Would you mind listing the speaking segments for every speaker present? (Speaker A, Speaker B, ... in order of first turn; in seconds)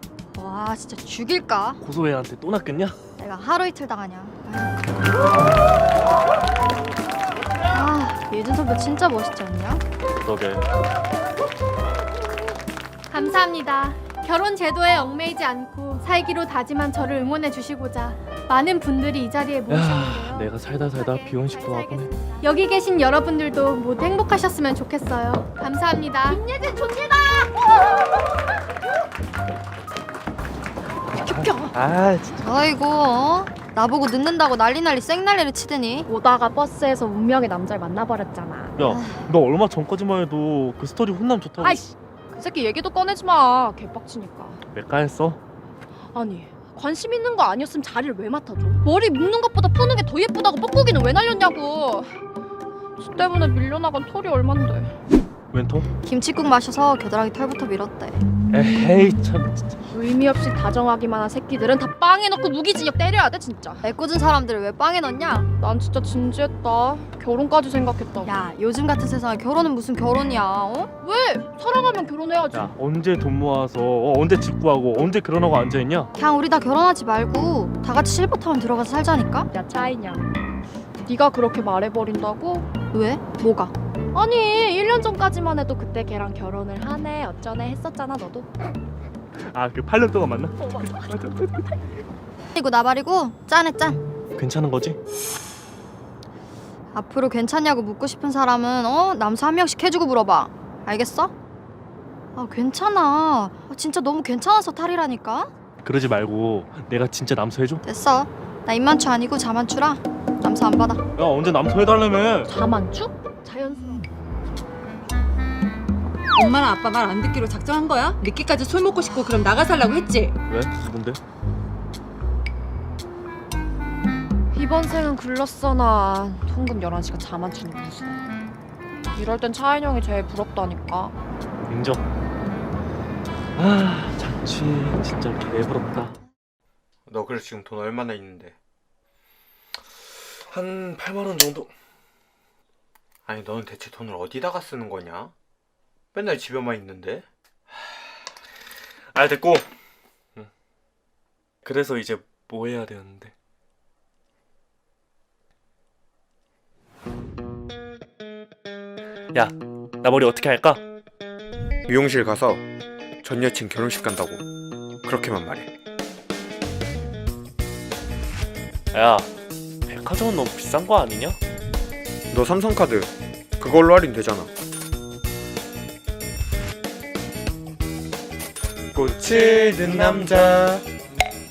Speaker A: 0.3-1.8, 3.2-4.8, 7.7-9.8, 32.4-36.1, 38.8-39.2, 56.0-58.2, 63.8-65.5, 68.2-70.9, 76.2-79.5, 82.9-83.7, 92.5-94.0, 96.9-101.3, 102.4-105.5, 107.8-111.0
Speaker B: 1.8-3.0, 10.2-10.7, 19.7-22.1, 31.2-32.5, 38.8-41.8, 44.7-45.4, 55.5-55.9, 58.5-59.7, 72.5-76.1, 89.5-91.8, 94.4-95.0, 105.8-107.8, 111.2-112.5, 120.5-121.2, 131.7-132.0, 133.6-136.1, 140.4-141.7, 149.1-149.7, 151.7-153.3, 159.3-160.8, 168.9-169.3, 169.9-171.4
Speaker C: 13.1-26.5
Speaker D: 26.3-27.5, 116.3-120.3
Speaker E: 36.1-38.7, 41.6-44.6, 46.1-52.1, 53.0-54.9, 59.9-63.8, 65.6-68.3, 71.0-72.6, 79.5-80.3, 81.0-82.7, 84.1-88.5, 112.5-114.0, 124.5-128.2, 129.1-131.1
Speaker F: 137.1-138.6, 143.2-145.3, 146.1-147.3, 161.9-162.6, 163.2-164.4, 165.0-165.7, 172.3-174.5, 178.9-180.8